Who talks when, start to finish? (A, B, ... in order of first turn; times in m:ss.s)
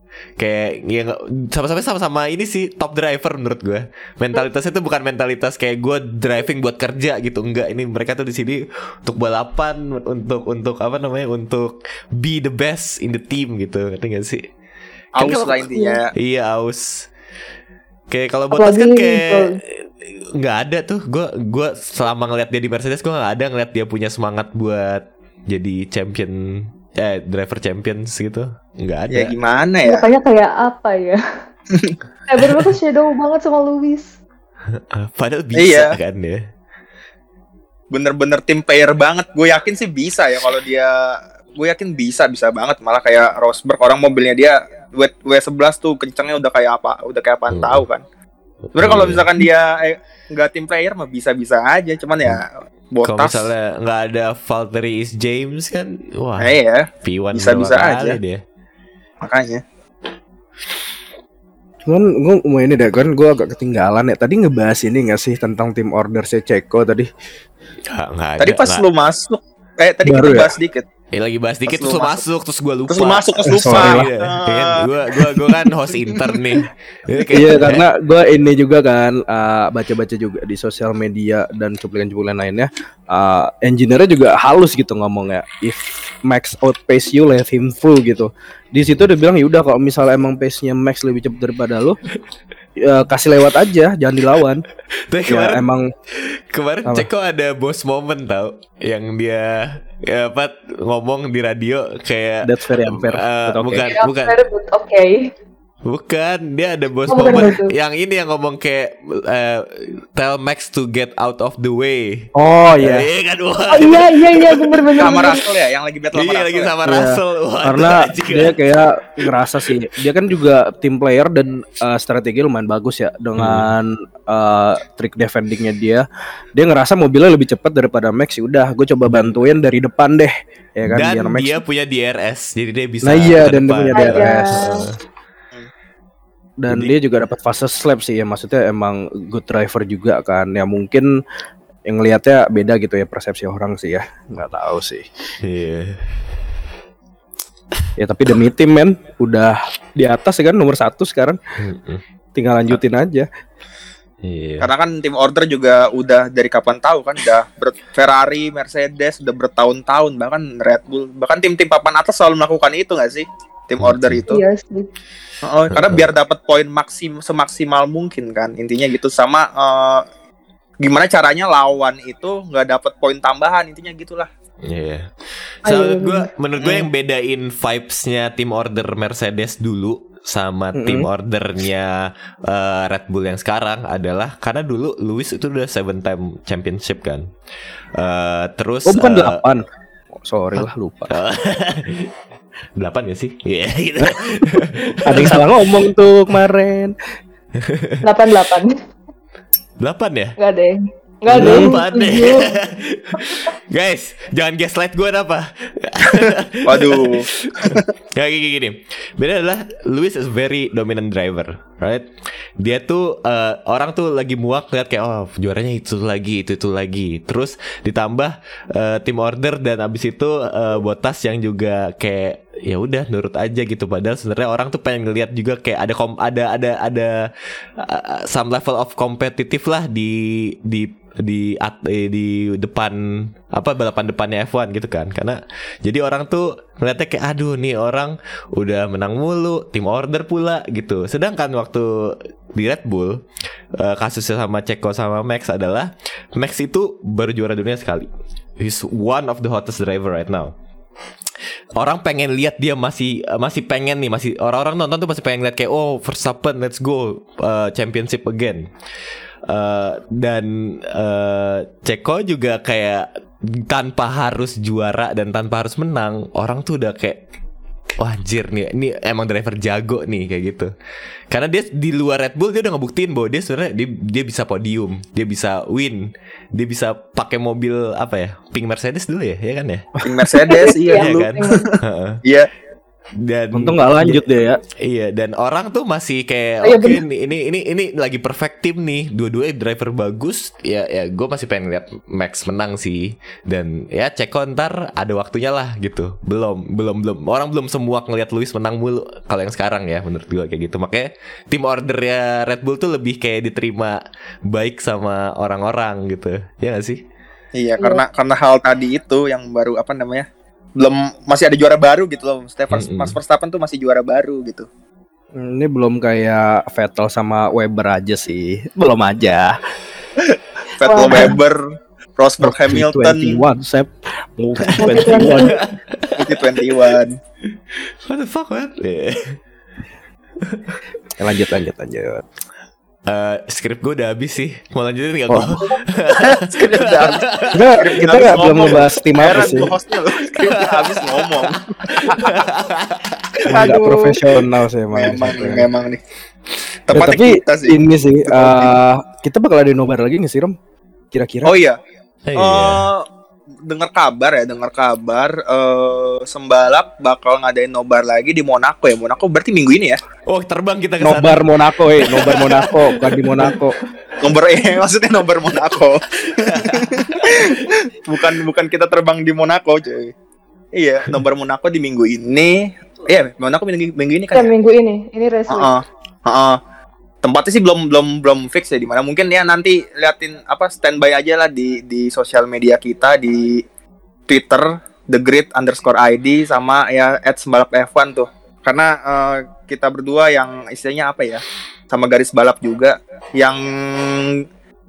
0:00.4-0:14.4 A
0:15.2-0:16.1 B
0:15.2-0:15.5 A
0:15.7-0:16.0 C
0:16.1-0:17.1 A
0:18.1-0:19.8 A
0:18.5-0:19.6 C
0:20.4-0:29.3 A
0:29.1-0:30.0 B
0:29.8-0:31.2 C
0:32.3-0:34.1 C
0:34.7-0:36.4 A
0:35.6-0:35.9 B
0:37.9-0:48.0 B
0:47.5-0:47.8 A
0:48.7-0:53.5 B
0:48.8-0:49.2 A
0:53.0-0:58.4 A
0:56.4-0:58.2 B
0:59.2-0:59.6 B
1:01.9-1:07.1 D
1:07.9-1:08.8 A
1:08.4-1:10.8 B
1:10.0-1:10.5 D
1:11.1-1:17.8 A
1:11.7-1:12.2 B
1:12.9-1:15.5 B
1:13.5-1:14.1 D
1:16.1-1:16.6 B
1:17.3-1:32.0 D
1:32.8-1:34.6 D
1:35.1-1:35.6 A
1:35.3-1:35.9 D
1:36.2-1:44.4 A
1:42.4-1:43.9 D
1:43.8-1:45.3 C
1:45.8-1:54.9 A
1:47.1-1:47.7 C
1:52.3-1:53.1 D
1:53.7-1:55.4 C
1:55.0-1:56.8 B
1:56.1-1:58.6 A
1:56.8-2:06.0 D
2:03.4-2:03.7 A
2:06.5-2:11.6 D
2:09.1-2:09.4 A
2:10.9-2:14.9 A
2:13.0-2:14.9 D
2:13.9-2:14.8 C
2:16.6-2:21.2 D
2:16.7-2:16.9 A
2:21.8-2:25.0 D
2:25.4-2:26.0 A
2:28.0-2:31.4 D
2:31.6-2:32.0 A
2:32.3-2:33.3 D
2:34.2-2:34.7 A
2:34.6-2:44.4 B
2:43.8-2:44.3 A
2:44.3-2:44.9 C
2:45.4-2:50.0 B
2:45.7-2:46.1 A
2:50.8-2:54.3 B
2:54.6-2:55.1 A
2:55.6-3:07.3 A
2:55.6-2:56.3 C
2:56.6-2:56.9 B
3:00.7-3:01.1 D
3:08.0-3:09.4 A
3:08.8-3:11.1 D
3:10.6-3:12.1 A
3:12.8-3:15.6 A
3:14.0-3:16.9 D
3:17.6-3:18.0 A
3:18.0-3:18.8 C
3:19.8-3:20.4 A
3:20.4-3:22.5 C
3:21.3-3:21.7 D
3:21.4-3:32.1 A
3:26.6-3:27.8 B
3:32.6-4:03.2 A
4:03.8-4:10.5 A
4:11.8-4:18.7 A
4:19.5-4:27.2 A
4:28.0-4:30.7 A
4:31.3-4:39.9 A
4:40.0-4:42.5 B
4:40.5-4:41.6 C
4:40.9-4:42.2 A
4:43.2-4:44.2 A
4:43.5-4:44.6 D
4:44.8-5:07.0 A
4:46.6-4:47.0 C
5:07.5-5:14.7 B
5:12.7-5:13.2 A
5:15.3-5:19.6 D
5:20.3-5:21.7 B
5:20.8-5:21.3 C
5:21.0-5:21.3 D
5:22.2-5:23.4 B
5:22.4-5:25.6 D
5:24.6-5:26.8 A
5:24.8-5:25.6 C
5:26.1-5:27.2 B
5:28.0-5:29.4 A
5:30.4-5:30.7 A
5:31.2-5:32.2 D
5:33.1-5:38.4 A
5:35.3-5:35.6 D
5:36.1-5:37.3 B
5:37.5-5:39.7 D
5:37.8-5:42.5 B
5:40.3-5:43.5 A
5:43.5-5:44.1 B
5:43.5-5:45.7 D
5:43.6-5:44.2 C
5:44.9-5:46.0 B
5:46.8-5:48.8 B
5:46.9-5:50.5 D
5:51.1-5:51.5 D
5:51.4-5:51.8 B
5:52.3-5:52.9 A
5:52.4-5:53.0 B
5:53.6-6:00.0 B
6:00.3-6:03.6 A
6:01.0-6:03.8 D
6:02.0-6:02.7 B
6:04.2-6:10.1 B
6:06.2-6:07.6 A
6:10.7-6:14.5 B
6:14.3-6:15.7 C
6:15.5-6:16.6 B
6:17.2-6:23.6 B
6:24.3-6:34.4 B